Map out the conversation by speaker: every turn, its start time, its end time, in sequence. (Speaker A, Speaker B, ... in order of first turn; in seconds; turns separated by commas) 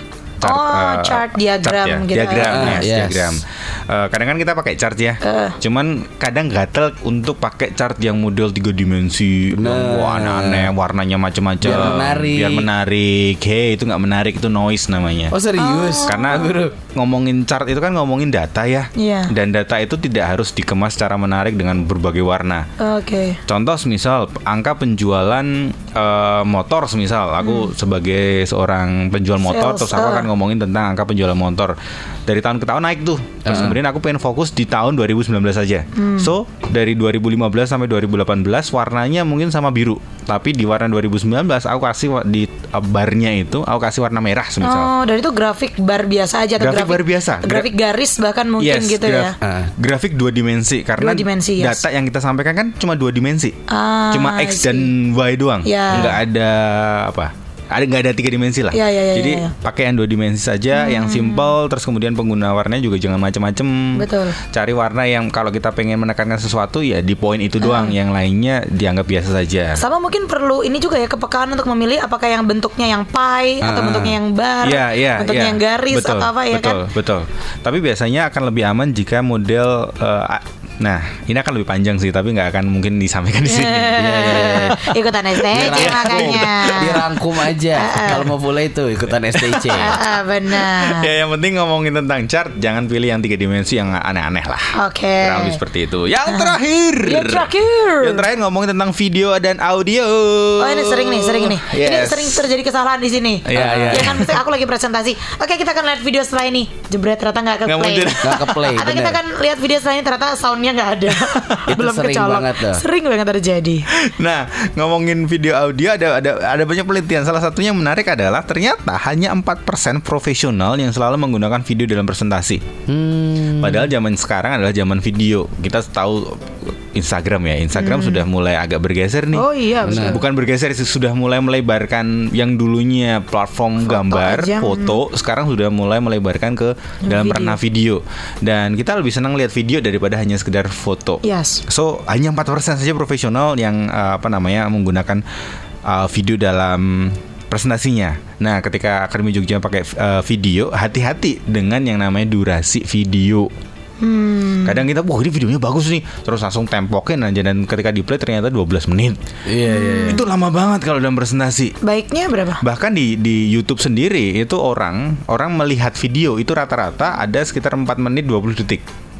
Speaker A: 0.4-15.3, Speaker B: 0.4-2.8, Speaker C: 2.4-3.4, Speaker B: 5.2-5.6, Speaker C: 9.5-10.7, Speaker C: 11.6-12.7, Speaker C: 15.3-16.7, Speaker B: 15.6-16.4, Speaker A: 16.0-22.7, Speaker B: 18.9-19.3, Speaker B: 22.8-23.4, Speaker A: 23.5-44.9, Speaker B: 27.4-27.7, Speaker B: 29.5-30.3, Speaker C: 33.4-33.8, Speaker B: 35.9-36.3, Speaker B: 44.6-49.3, Speaker A: 46.6-47.7, Speaker A: 48.6-53.5, Speaker C: 49.4-49.7, Speaker B: 51.0-51.8, Speaker B: 53.7-54.9, Speaker A: 54.1-69.8, Speaker B: 55.6-56.1, Speaker B: 58.7-59.5, Speaker B: 60.7-61.5, Speaker B: 63.9-64.4, Speaker B: 67.6-67.9, Speaker B: 69.8-76.8, Speaker C: 73.6-74.2, Speaker A: 74.6-84.0, Speaker B: 83.5-87.0, Speaker C: 83.9-84.8, Speaker A: 85.5-87.0, Speaker C: 85.5-90.0, Speaker B: 87.7-88.3, Speaker A: 89.3-94.7, Speaker B: 89.8-91.1, Speaker B: 94.8-95.6, Speaker A: 95.2-102.4, Speaker B: 96.3-98.2, Speaker B: 100.6-113.8, Speaker A: 103.5-104.3, Speaker C: 103.5-104.3, Speaker A: 107.7-108.6, Speaker C: 108.2-109.2, Speaker A: 111.2-111.6, Speaker C: 111.7-112.8, Speaker A: 113.9-122.6, Speaker C: 122.9-123.9, Speaker A: 123.6-145.2, Speaker B: 127.7-128.2, Speaker B: 129.3-130.2, Speaker C: 129.8-130.2, Speaker B: 133.8-135.0, Speaker B: 137.1-137.6, Speaker B: 141.2-141.6, Speaker A: 145.8-153.5, Speaker B: 154.0-154.8, Speaker A: 154.6-159.2, Speaker C: 159.5-160.2, Speaker B: 159.6-160.2, Speaker A: 160.1-161.7, Speaker B: 161.8-162.6, Speaker A: 162.6-168.8